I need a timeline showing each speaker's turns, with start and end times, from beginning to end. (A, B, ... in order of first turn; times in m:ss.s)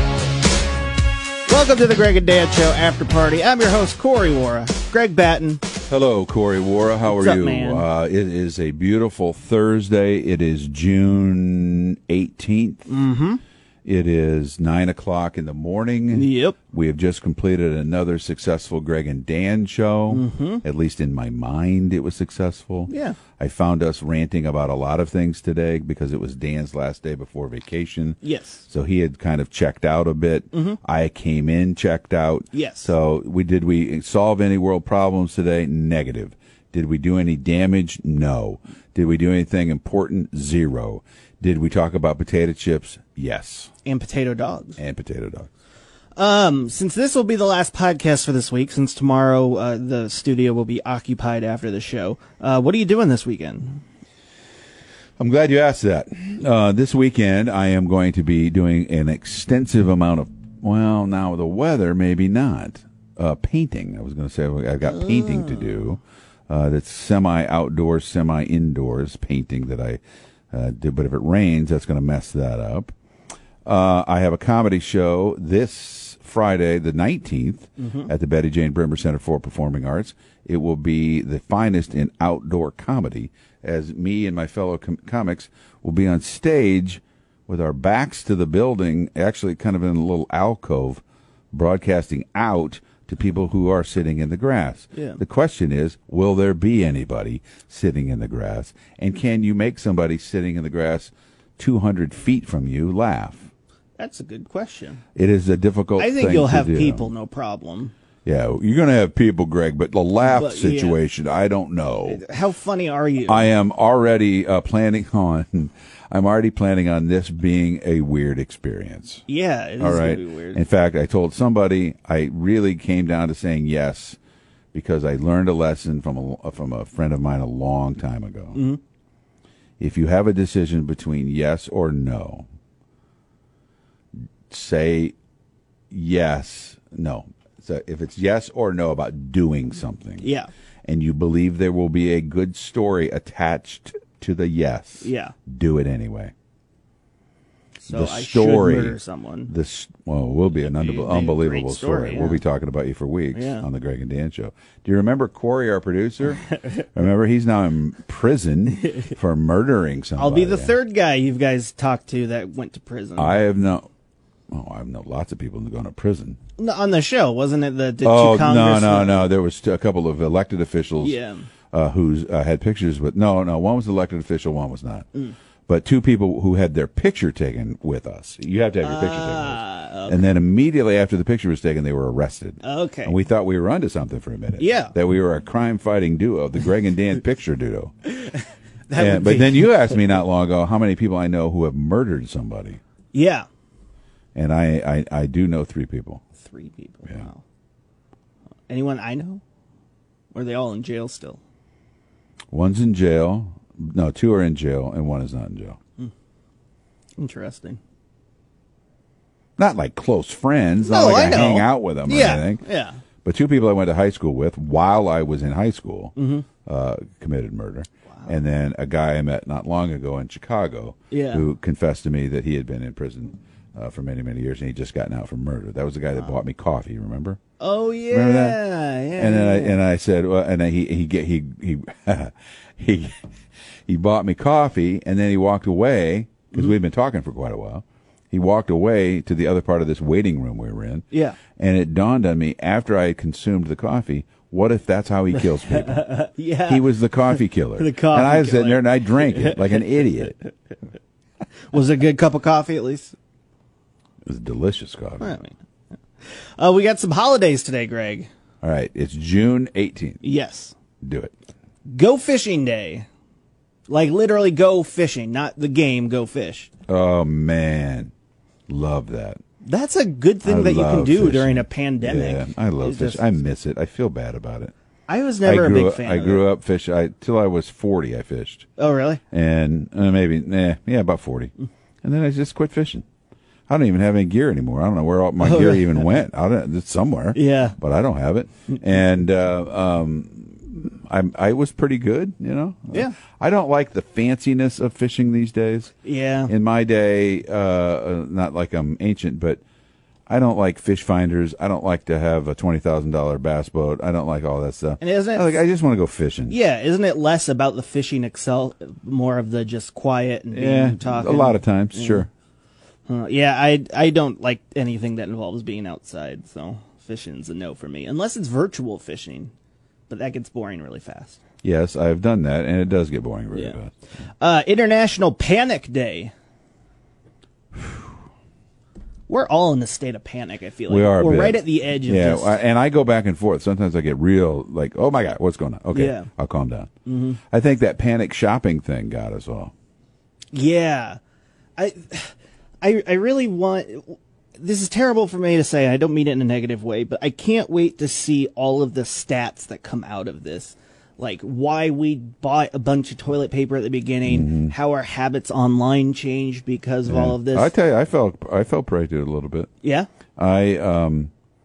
0:01.5-0:05.6 A
0:05.9-0:12.9 B
0:07.1-0:07.9 A
0:12.9-0:13.4 A
0:13.8-0:43.7 B
0:16.1-0:16.6 A
0:20.1-0:20.6 A
0:22.9-0:23.2 A
0:28.2-0:28.6 A
0:30.5-0:30.8 A
0:32.5-0:32.9 A
0:43.8-0:44.8 A
0:44.8-0:45.5 B
0:46.2-0:53.8 A
0:55.2-1:12.9 B
1:04.8-1:05.8 A
1:13.6-1:43.5 B
1:17.8-1:18.1 A
1:34.9-1:35.2 A
1:44.0-1:45.0 A
1:45.2-1:47.1 B
1:46.0-1:47.9 A
1:48.2-1:52.2 B
1:50.2-1:51.0 A
1:52.1-1:53.5 A
1:53.3-1:59.2 B
1:59.3-2:00.6 A
1:59.8-2:04.2 B
2:04.7-2:08.6 B
2:08.6-2:08.8 A
2:09.8-2:12.5 B
2:14.5-2:15.2 B
2:15.9-2:20.3 B
2:20.2-2:20.5 A
2:20.9-2:26.3 B
2:25.0-2:25.4 A
2:27.8-2:29.5 A
2:27.9-2:29.0 B
2:29.5-2:40.8 B
2:30.6-2:32.4 A
2:33.3-2:33.7 A
2:40.2-2:43.4 A
2:43.2-2:43.9 B
2:44.5-2:46.4 B
2:46.6-2:49.3 A
2:48.0-2:51.2 B
2:51.0-2:51.5 A
2:51.7-2:55.1 B
2:55.7-3:07.9 B
2:58.8-3:00.3 A
3:02.6-3:03.2 A
3:04.6-3:04.9 A
3:08.2-3:10.1 A
3:08.9-3:12.8 B
3:13.1-3:13.5 A
3:14.4-3:16.2 B
3:16.4-3:17.4 A
3:18.7-3:19.4 A
3:20.3-3:21.4 A
3:22.5-3:25.8 B
3:27.2-3:27.8 A
3:29.6-3:32.6 B
3:30.8-3:33.0 A
3:33.2-3:47.4 B
3:36.2-3:36.5 A
3:41.1-3:41.4 A
3:47.6-3:49.8 A
3:48.1-3:48.6 B
3:49.2-3:53.2 B
3:53.9-4:01.0 B
4:01.1-4:01.4 A
4:01.6-4:06.1 B
4:05.3-4:10.3 A
4:06.7-4:10.4 B
4:11.7-4:13.2 A
4:14.2-4:15.4 B
4:15.2-4:15.5 A
4:16.6-4:18.3 A
4:18.6-4:20.2 B
4:20.2-4:20.8 A
4:21.0-4:21.3 B
4:21.9-4:23.1 A
4:23.9-4:26.7 A
4:26.9-4:28.1 B
4:28.7-4:29.4 B
4:29.6-4:33.4 A
4:30.4-4:34.7 B
4:35.1-4:36.5 A
4:35.4-4:38.7 B
4:38.8-4:39.2 A
4:39.3-4:43.0 B
4:43.7-4:55.9 B
4:45.4-4:46.2 A
4:47.3-4:47.8 A
4:52.9-4:53.2 A
4:56.0-4:56.5 A
4:56.5-4:59.6 B
5:00.3-5:06.6 B
5:05.0-5:05.6 A
5:06.5-5:12.3 A
5:10.5-5:12.3 B
5:13.1-5:19.5 A
5:20.1-5:21.4 A
5:21.6-5:23.9 B
5:23.5-5:23.8 A
5:24.4-5:26.3 A
5:29.3-5:32.6 A
5:30.9-5:36.9 B
5:35.9-5:36.3 A
5:37.1-5:37.4 A
5:37.5-5:39.7 B
5:40.5-5:41.2 A
5:41.8-5:57.7 A
5:54.3-5:54.7 B
5:57.1-5:59.7 B
5:59.8-6:00.1 A
6:00.4-6:01.3 B